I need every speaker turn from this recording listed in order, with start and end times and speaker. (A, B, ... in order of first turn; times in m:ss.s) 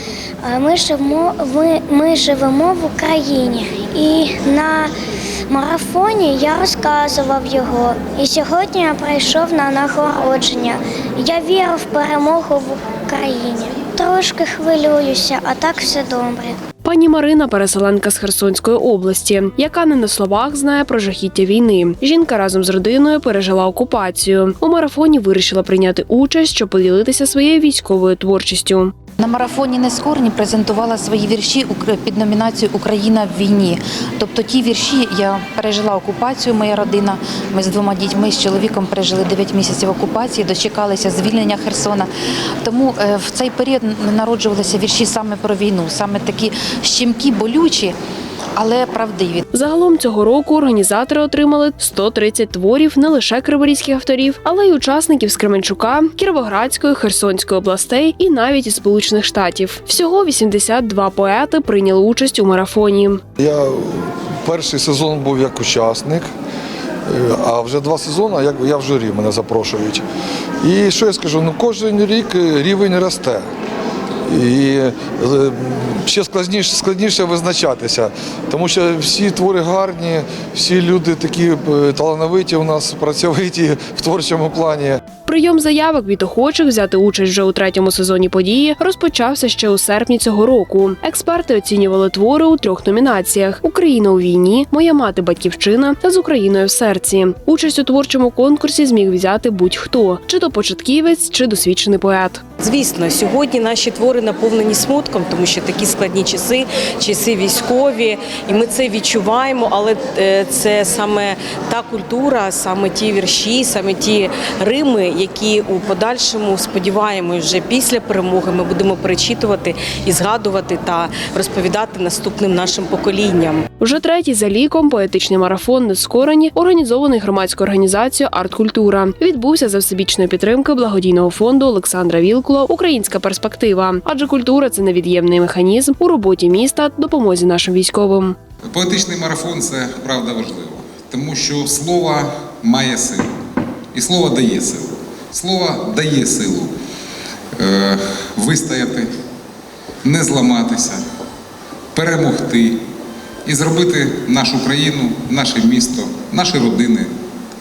0:00.4-0:04.9 A
0:05.5-0:16.6 A
0:16.8-0:28.9 B
0:29.2-0:42.1 C
0:42.6-0:47.9 C
0:48.6-0:49.4 C
0:49.5-1:03.2 B
1:03.4-1:06.3 D
1:07.1-1:10.0 D
1:10.6-1:13.4 D
1:14.3-1:25.0 D
1:25.2-1:42.4 B
1:42.6-2:03.6 E
2:03.8-2:18.4 B
2:18.7-2:23.4 F
2:23.9-2:26.7 F
2:27.6-2:29.1 F
2:30.0-2:31.0 F
2:31.9-2:32.8 F
2:33.4-2:37.1 F